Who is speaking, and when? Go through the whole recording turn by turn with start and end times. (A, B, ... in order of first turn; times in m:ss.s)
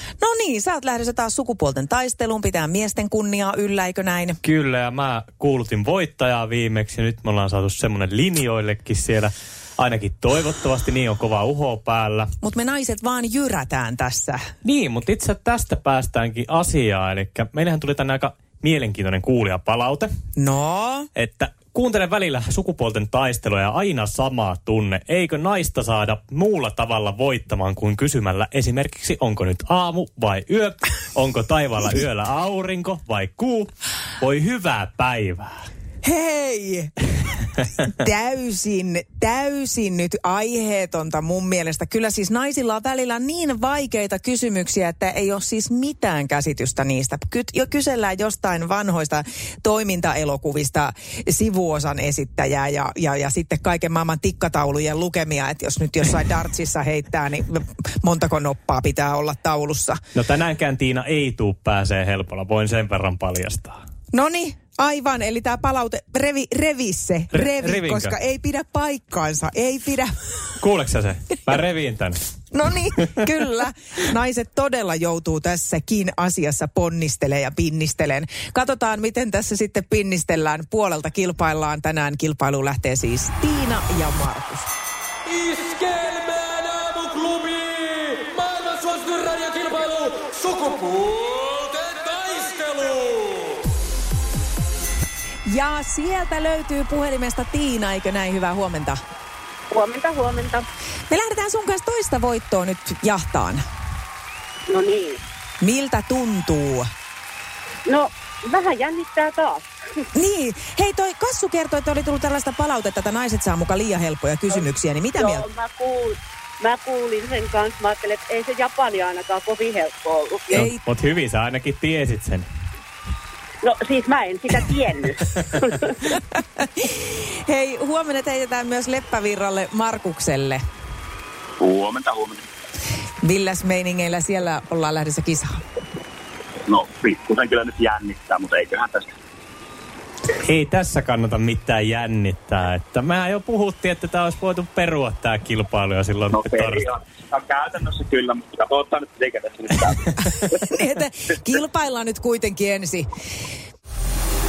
0:00.2-0:04.4 A
0:04.4-0:12.3 B
0:12.4-0:14.4 A
0:14.6-0:20.1 B
0:20.4-0:21.1 A
0:21.2-0:35.6 B
0:36.0-0:36.9 A
0:37.8-1:00.0 A
1:00.1-1:03.8 B
1:04.1-1:10.1 A
1:07.3-1:08.2 B
1:10.6-1:12.2 B
1:12.5-1:24.7 A
1:25.3-1:33.4 C
1:35.4-1:39.0 A
1:39.7-1:40.7 D
1:41.1-1:43.6 A
1:44.7-1:45.2 D
1:45.6-1:46.9 A
1:47.9-1:49.7 D
1:50.1-1:55.4 A
1:55.2-2:00.7 D
2:00.5-2:00.8 A
2:00.5-2:02.5 B
2:03.6-2:05.7 D
2:06.1-2:10.6 A
2:11.6-2:12.4 E
2:13.2-2:15.6 A
2:16.7-2:19.0 E
2:20.4-2:26.8 B
2:26.3-2:30.1 E
2:30.2-2:33.1 A